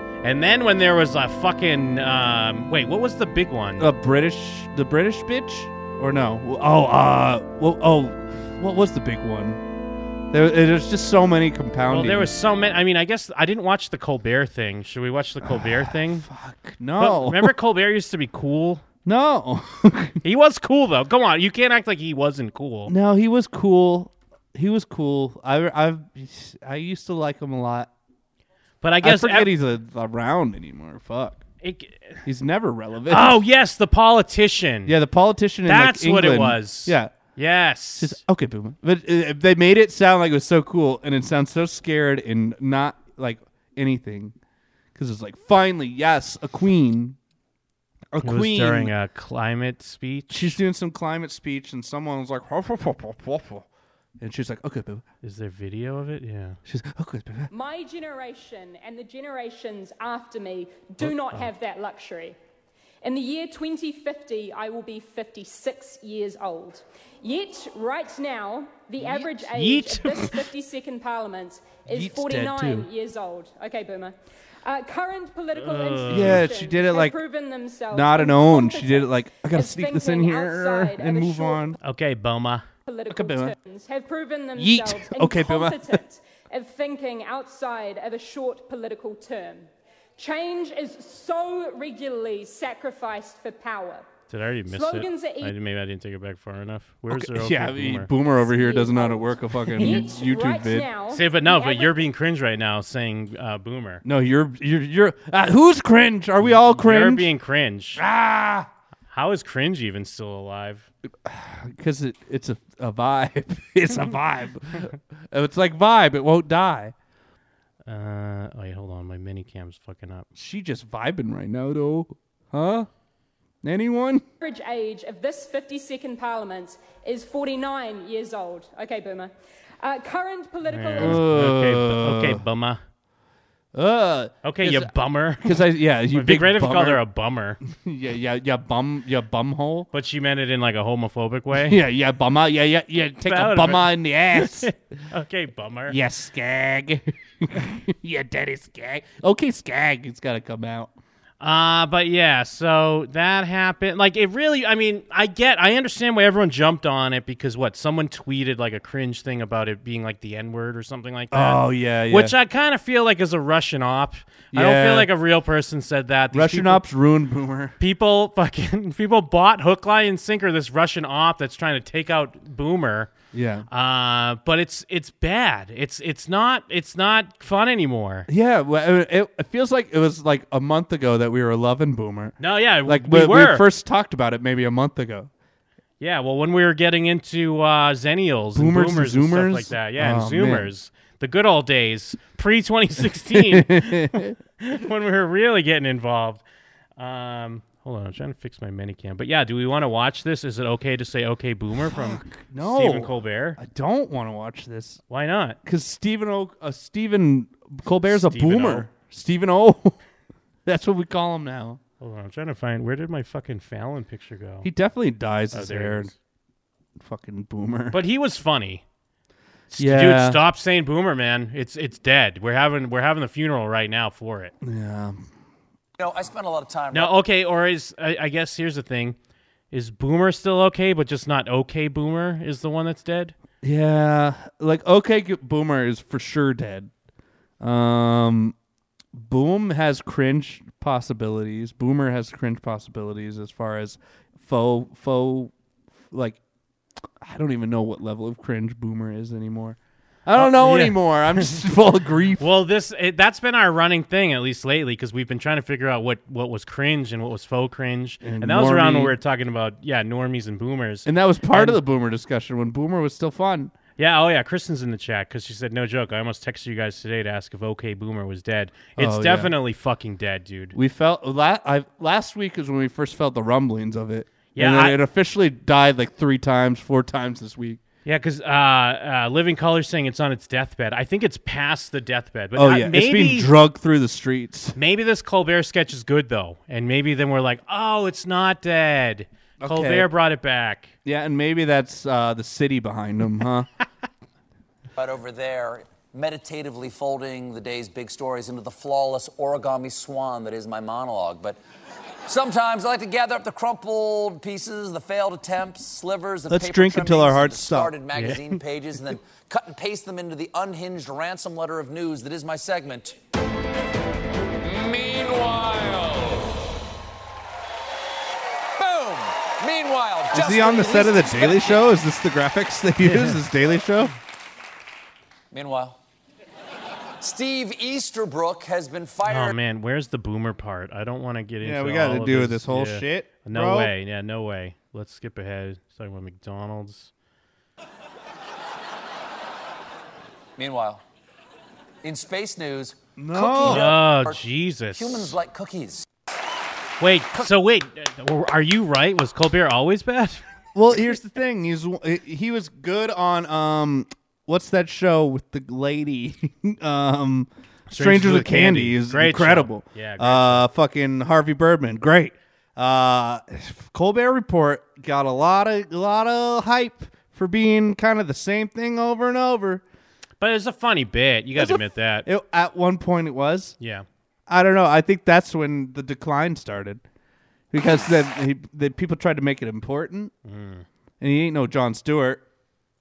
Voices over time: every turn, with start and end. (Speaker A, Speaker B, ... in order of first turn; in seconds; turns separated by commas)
Speaker A: 0.2-3.9, Speaker B: 3.8-9.6, Speaker B: 10.3-12.3, Speaker A: 11.9-16.3, Speaker B: 15.4-17.5, Speaker A: 17.0-18.8, Speaker B: 19.0-20.2, Speaker A: 20.2-22.9, Speaker B: 22.9-27.9, Speaker A: 28.8-29.5, Speaker B: 29.0-31.4, Speaker A: 31.6-32.2, Speaker B: 32.2-33.4, Speaker A: 33.1-34.9, Speaker B: 34.9-37.1, Speaker A: 35.7-38.2, Speaker B: 38.0-44.3, Speaker B: 44.9-47.2, Speaker B: 48.1-48.9, Speaker A: 48.2-50.6, Speaker B: 50.3-53.7, Speaker B: 54.2-55.0, Speaker A: 55.2-56.6, Speaker B: 56.6-57.5, Speaker C: 57.5-62.4, Speaker C: 63.0-81.8, Speaker A: 69.0-70.4, Speaker B: 71.9-72.9, Speaker A: 75.5-76.5, Speaker B: 76.1-77.2, Speaker B: 77.9-81.8, Speaker A: 81.8-82.7, Speaker C: 82.8-94.1, Speaker B: 83.1-83.5, Speaker B: 84.6-86.0, Speaker A: 94.3-98.1, Speaker C: 94.7-95.5, Speaker B: 97.1-100.9, Speaker C: 98.5-102.0, Speaker A: 101.1-104.0, Speaker B: 104.0-107.3, Speaker A: 106.4-108.0, Speaker B: 108.0-108.7, Speaker A: 109.1-110.9, Speaker B: 111.2-116.9, Speaker A: 117.8-120.3, Speaker B: 120.3-122.9, Speaker B: 123.6-124.2, Speaker C: 124.4-131.2, Speaker A: 130.7-132.8, Speaker B: 131.0-132.4, Speaker B: 133.7-134.9, Speaker A: 134.4-137.6, Speaker B: 135.4-137.0, Speaker B: 137.6-139.9, Speaker A: 139.9-141.8, Speaker B: 141.5-144.7, Speaker A: 143.2-146.0, Speaker B: 145.9-150.9, Speaker A: 151.4-166.8, Speaker B: 161.3-162.3, Speaker B: 164.5-165.1, Speaker B: 166.3-167.7, Speaker A: 167.8-173.1, Speaker B: 173.3-173.7, Speaker A: 173.7-178.3, Speaker B: 178.3-185.3, Speaker A: 182.4-183.6, Speaker A: 186.0-194.1, Speaker B: 188.5-190.7, Speaker B: 193.3-194.3, Speaker A: 194.6-196.4, Speaker A: 197.0-203.6, Speaker B: 201.8-205.0, Speaker A: 205.1-205.6, Speaker B: 205.6-209.9, Speaker A: 208.0-208.9, Speaker B: 210.7-211.8, Speaker A: 212.0-214.7, Speaker B: 214.6-216.1, Speaker A: 215.5-216.1, Speaker B: 217.0-217.9, Speaker A: 217.9-218.8, Speaker A: 219.7-224.5, Speaker B: 219.8-220.4, Speaker B: 224.6-225.2, Speaker D: 226.0-227.1, Speaker A: 226.9-229.2, Speaker A: 229.7-233.3, Speaker B: 233.6-236.9, Speaker B: 237.6-238.5, Speaker B: 239.1-245.5, Speaker B: 246.1-246.4, Speaker B: 247.2-252.4, Speaker A: 250.3-251.6, Speaker A: 252.4-261.8, Speaker B: 258.2-259.1, Speaker B: 261.0-263.7, Speaker A: 264.0-270.8, Speaker B: 269.0-269.5, Speaker B: 270.7-277.8, Speaker A: 274.5-275.0, Speaker A: 278.0-283.5, Speaker B: 282.6-284.8, Speaker A: 284.8-290.9, Speaker B: 289.6-290.1, Speaker B: 291.0-293.7, Speaker D: 294.9-301.6, Speaker D: 302.3-313.1, Speaker B: 306.5-307.9, Speaker A: 308.1-308.6, Speaker D: 314.6-316.5, Speaker D: 318.8-321.8, Speaker B: 320.3-324.1, Speaker A: 323.0-323.4, Speaker D: 325.5-326.0, Speaker D: 327.2-329.6, Speaker A: 329.2-337.1, Speaker B: 331.6-333.9, Speaker D: 340.6-341.0, Speaker D: 342.0-346.0, Speaker B: 343.2-343.9, Speaker A: 343.6-345.3, Speaker A: 347.0-350.4, Speaker B: 350.7-369.8, Speaker A: 357.9-360.7, Speaker A: 370.4-372.3, Speaker B: 371.5-373.8, Speaker A: 373.8-374.1, Speaker B: 374.5-377.0, Speaker B: 377.7-380.3, Speaker A: 380.4-380.9, Speaker B: 381.2-382.4